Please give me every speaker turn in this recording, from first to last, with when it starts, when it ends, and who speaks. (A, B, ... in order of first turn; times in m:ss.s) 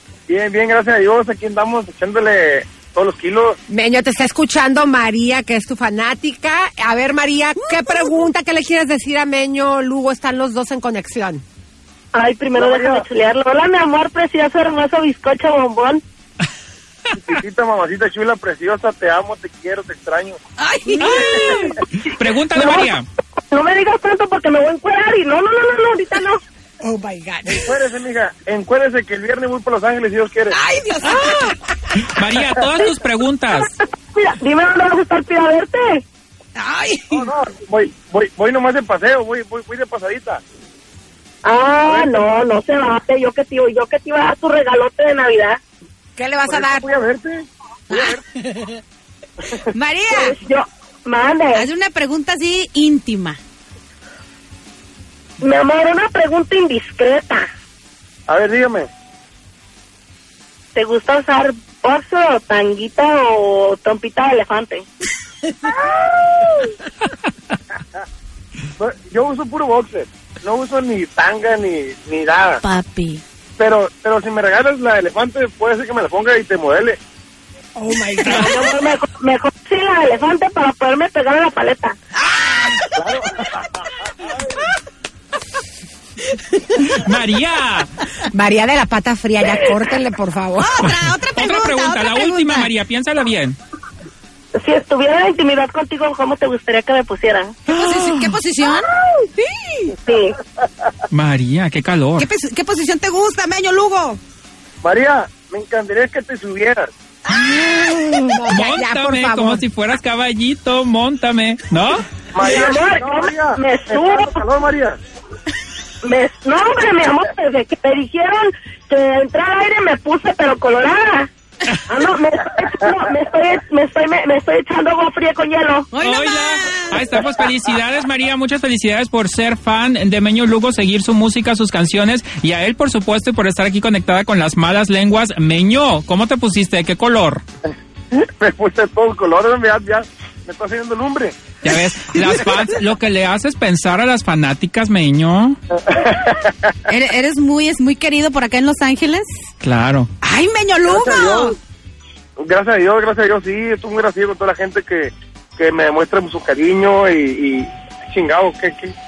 0:00.3-0:03.6 A
0:03.7-0:11.4 B
0:12.1-0:16.0 C
0:12.5-0:13.0 A
0:17.1-0:20.4 A
0:20.6-0:21.2 D
0:21.0-0:23.0 E
0:21.0-0:21.6 C
0:22.5-0:22.9 C
0:23.5-0:26.4 C
0:26.8-0:27.9 B
0:27.5-0:30.6 A
0:30.6-0:31.5 D
0:30.8-0:31.4 B
0:32.0-0:33.7 E
0:34.1-0:36.0 C
0:36.6-0:37.2 D
0:37.1-0:40.4 A
0:41.4-0:45.6 C
0:41.8-0:42.2 A
0:46.2-0:47.0 B
0:46.5-0:48.2 A
0:47.9-0:48.7 D
0:49.7-0:50.4 D
0:50.1-0:51.7 C
0:51.5-0:53.4 D
0:55.4-0:57.4 C
0:58.3-0:58.9 A
1:00.7-1:04.8 C
1:08.8-1:12.6 A
1:12.6-1:13.2 D
1:13.6-1:17.0 A
1:17.8-1:18.8 B
1:18.2-1:21.9 C
1:23.0-1:23.3 A
1:26.8-1:27.9 E
1:28.3-1:30.9 B
1:30.6-1:32.7 D
1:30.8-1:33.6 E
1:34.6-1:37.6 C
1:37.7-1:39.9 D
1:37.7-1:38.3 E
1:40.0-1:40.3 C
1:41.1-1:42.3 E
1:42.2-1:44.2 D
1:44.8-1:46.9 A
1:47.4-1:49.6 B
1:48.5-1:52.0 E
1:52.3-1:55.0 A
1:52.4-1:54.3 C
1:56.0-2:01.3 C
2:01.9-2:05.9 C
2:05.9-2:07.0 D
2:06.0-2:17.4 E
2:18.2-2:21.3 A
2:21.6-2:25.6 E
2:26.9-2:29.3 D
2:29.6-2:30.1 E
2:30.2-2:31.6 D
2:30.9-2:31.5 A
2:32.4-2:38.9 A